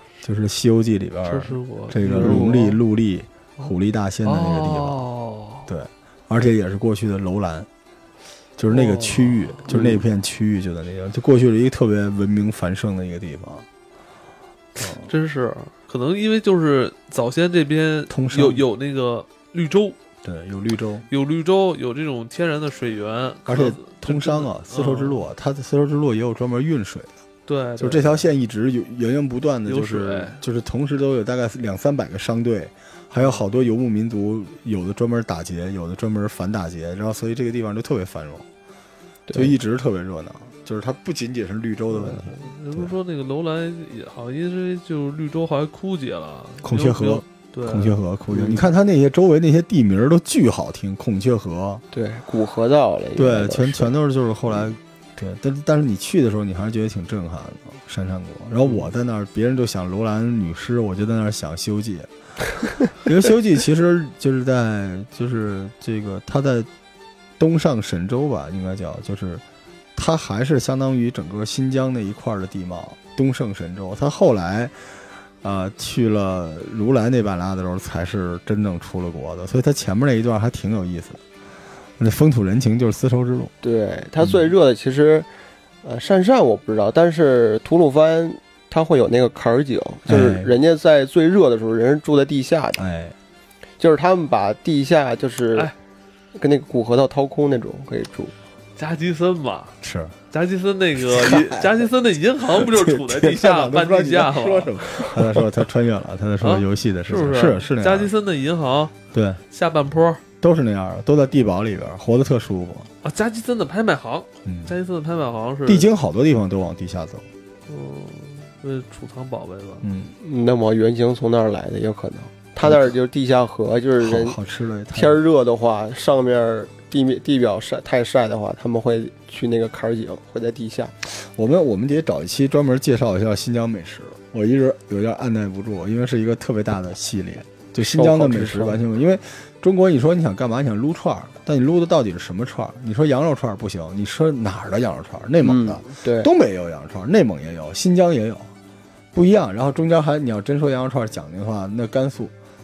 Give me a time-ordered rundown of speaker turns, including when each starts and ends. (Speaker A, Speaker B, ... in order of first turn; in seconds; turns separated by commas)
Speaker A: 0.2-5.0, Speaker B: 1.2-2.8, Speaker C: 2.0-2.5, Speaker B: 4.2-5.7, Speaker A: 5.7-7.7, Speaker A: 8.6-13.7, Speaker B: 8.7-10.0, Speaker A: 14.8-15.1, Speaker B: 14.8-20.0, Speaker A: 18.1-18.6, Speaker A: 20.2-21.1, Speaker B: 21.1-25.2, Speaker A: 23.4-27.2, Speaker B: 27.5-28.3, Speaker A: 27.8-38.5, Speaker B: 29.6-30.4, Speaker C: 39.3-39.5, Speaker A: 39.3-42.9, Speaker B: 42.0-48.0, Speaker A: 46.6-51.8, Speaker C: 48.3-48.6, Speaker C: 51.9-53.9, Speaker A: 53.1-62.1, Speaker A: 62.9-66.7, Speaker A: 67.4-69.4, Speaker A: 70.0-81.2, Speaker A: 82.0-83.5, Speaker C: 83.6-85.3, Speaker C: 85.8-92.8, Speaker A: 90.1-90.5, Speaker A: 92.8-93.1, Speaker C: 93.8-95.7, Speaker C: 96.3-98.3, Speaker B: 98.8-99.8, Speaker A: 99.8-100.2, Speaker B: 100.3-105.2, Speaker A: 101.0-101.9, Speaker A: 102.4-108.1, Speaker B: 106.4-110.2, Speaker A: 109.1-109.4, Speaker A: 110.4-112.9, Speaker B: 113.0-115.9, Speaker A: 114.5-114.7, Speaker A: 115.7-117.3, Speaker B: 117.7-119.9, Speaker A: 119.8-120.2, Speaker C: 120.2-124.4, Speaker A: 122.6-122.9, Speaker A: 124.0-125.2, Speaker C: 124.9-130.9, Speaker A: 131.1-148.5, Speaker C: 137.8-138.8, Speaker C: 145.4-146.3, Speaker A: 149.1-152.3